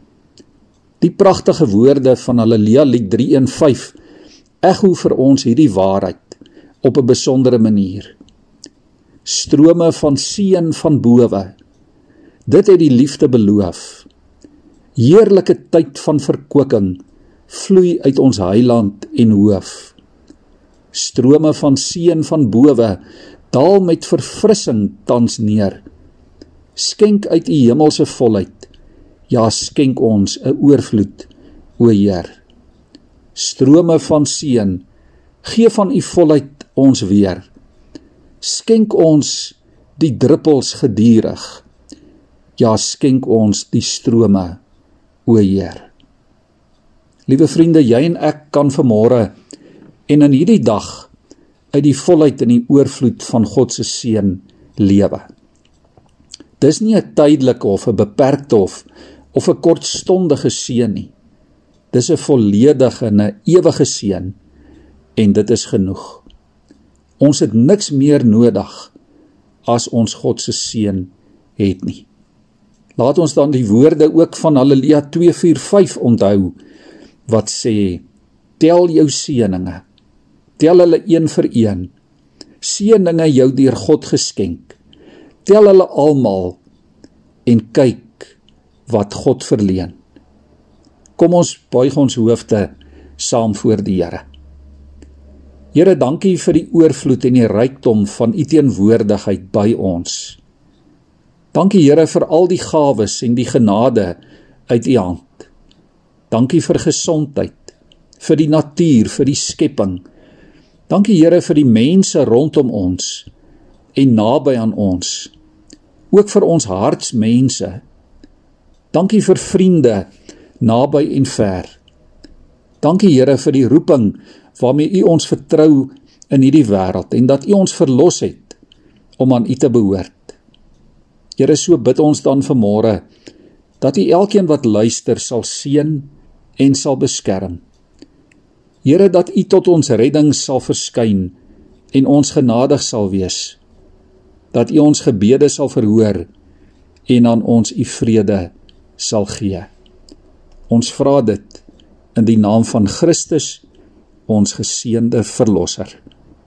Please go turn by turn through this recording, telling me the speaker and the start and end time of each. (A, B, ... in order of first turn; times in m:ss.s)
0:01.0-0:04.0 A
0:04.6-0:08.2 A
0:09.2-0:11.6 A
0:12.5-0:14.0 A
0:15.0-0:20.0 A
0:20.9-0:25.8 A
0:26.8-0:28.7 A
0:29.3-0:32.4 A
0:33.4-0:34.8 A
0:35.4-0:37.5 A
0:38.4-0:41.6 A
0:42.6-0:44.6 A
0:45.3-0:45.9 A
0:47.3-0:49.3 A
0:50.1-0:51.1 A
0:51.7-0:55.3 A
0:56.6-1:01.1 A
1:01.9-1:04.4 A
1:05.2-1:06.2 A
1:07.2-1:08.9 A
1:09.7-1:12.1 A
1:13.0-1:16.6 A
1:17.3-1:18.0 A
1:18.6-1:19.8 A
1:20.6-1:21.9 A
1:22.6-1:24.8 A
1:25.4-1:26.6 A
1:27.5-1:28.4 A
1:28.9-1:30.0 A
1:31.2-1:34.2 A
1:35.7-1:40.4 A
1:41.5-1:45.5 A
1:46.3-1:50.0 A
1:50.9-1:53.3 A
1:54.0-1:55.3 A
1:56.1-1:57.8 A
1:58.9-2:00.1 A
2:00.6-2:01.8 A
2:02.8-2:08.6 A
2:09.2-2:10.4 A
2:11.4-2:13.0 A
2:13.8-2:17.6 A
2:18.8-2:21.4 A
2:21.9-2:23.6 A
2:24.5-2:26.3 A
2:27.1-2:29.7 A
2:30.7-2:31.6 A
2:32.2-2:33.6 A
2:34.3-2:36.0 A